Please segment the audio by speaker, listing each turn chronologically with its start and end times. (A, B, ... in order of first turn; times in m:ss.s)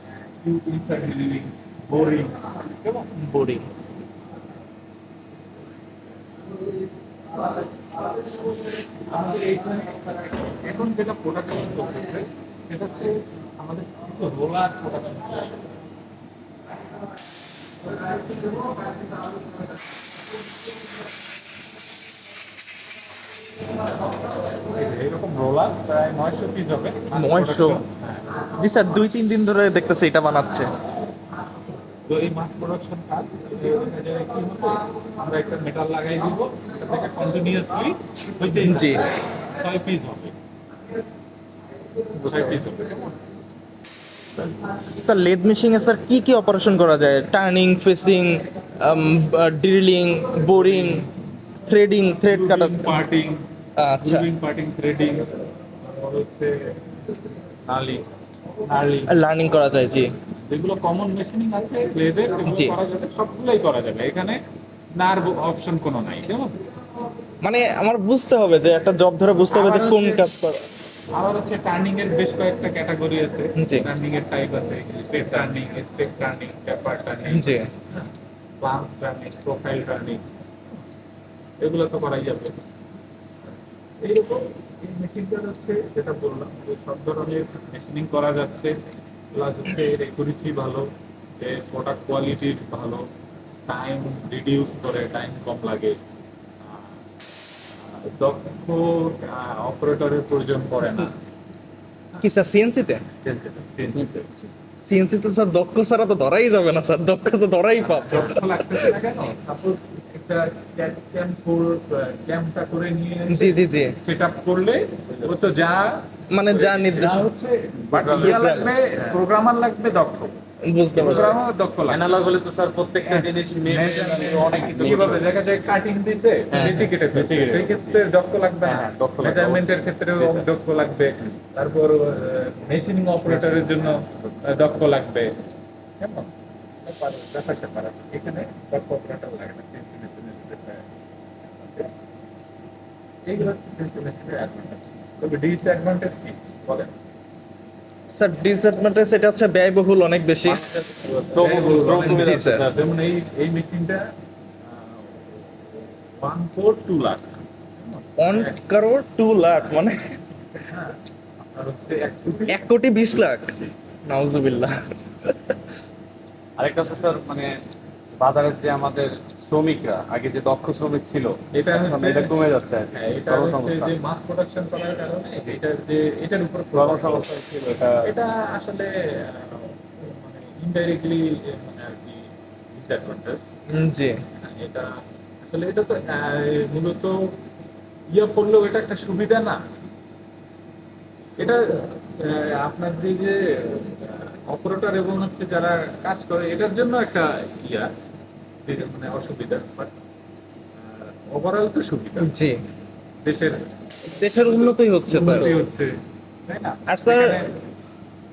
0:00.4-0:03.2 A
0:03.2-0:03.7 B
0:09.0-0:15.6 A
0:24.5-0:28.4 A
0:27.1-0:27.8 B
0:28.4-0:30.7 B
0:32.0-0:40.4 A
0:38.6-0:39.0 B
0:42.2-0:43.1 A
0:44.4-0:51.1 B
0:50.8-0:51.0 A
0:51.6-0:53.0 B
0:52.2-0:53.4 A
0:53.8-0:54.3 B
0:54.0-0:55.3 A
0:55.8-0:56.8 A
0:57.6-0:58.0 A
0:58.6-0:59.2 A
0:59.1-1:00.1 B
1:00.5-1:04.4 A
1:02.4-1:02.8 B
1:05.0-1:06.6 A
1:07.4-1:10.6 B
1:09.5-1:10.3 A
1:11.1-1:17.6 A
1:13.6-1:13.9 B
1:17.3-1:17.7 B
1:18.6-1:20.2 A
1:21.6-1:22.6 A
1:24.0-1:28.8 A
1:29.3-1:33.1 A
1:33.7-1:36.0 A
1:36.6-1:37.0 A
1:37.8-1:41.1 A
1:42.2-1:43.0 B
1:43.2-1:44.1 C
1:43.7-1:44.3 A
1:44.8-1:48.9 B
1:47.8-2:00.3 A
1:53.3-1:54.0 B
1:55.1-1:55.5 C
1:56.3-1:57.3 B
1:57.8-1:59.2 C
1:58.2-1:58.7 B
2:00.6-2:01.3 B
2:00.9-2:02.1 A
2:01.0-2:01.4 C
2:01.9-2:05.3 C
2:03.0-2:15.3 A
2:06.5-2:06.9 B
2:06.5-2:08.0 C
2:08.6-2:10.5 C
2:13.3-2:13.9 C
2:16.0-2:16.3 A
2:16.8-2:20.9 A
2:21.5-2:22.0 A
2:23.2-2:26.9 A
2:28.1-2:30.6 B
2:30.4-2:32.6 C
2:31.4-2:34.0 A
2:32.0-2:32.6 B
2:34.6-2:38.6 A
2:38.2-2:40.2 B
2:40.7-2:41.0 A
2:41.5-2:42.6 A
2:42.5-2:45.5 B
2:46.6-2:47.6 C
2:48.2-2:53.9 C
2:51.5-2:52.4 A
2:52.9-2:57.3 A
2:56.7-2:58.1 C
2:58.0-3:03.4 A
3:03.7-3:04.2 B
3:04.4-3:07.4 A
3:08.1-3:09.6 A
3:11.4-3:17.9 A
3:18.6-3:19.9 A
3:20.8-3:22.3 A
3:22.2-3:22.6 B
3:23.2-3:23.6 A
3:24.1-3:25.6 B
3:25.1-3:25.9 A
3:26.5-3:27.6 A
3:26.9-3:27.4 B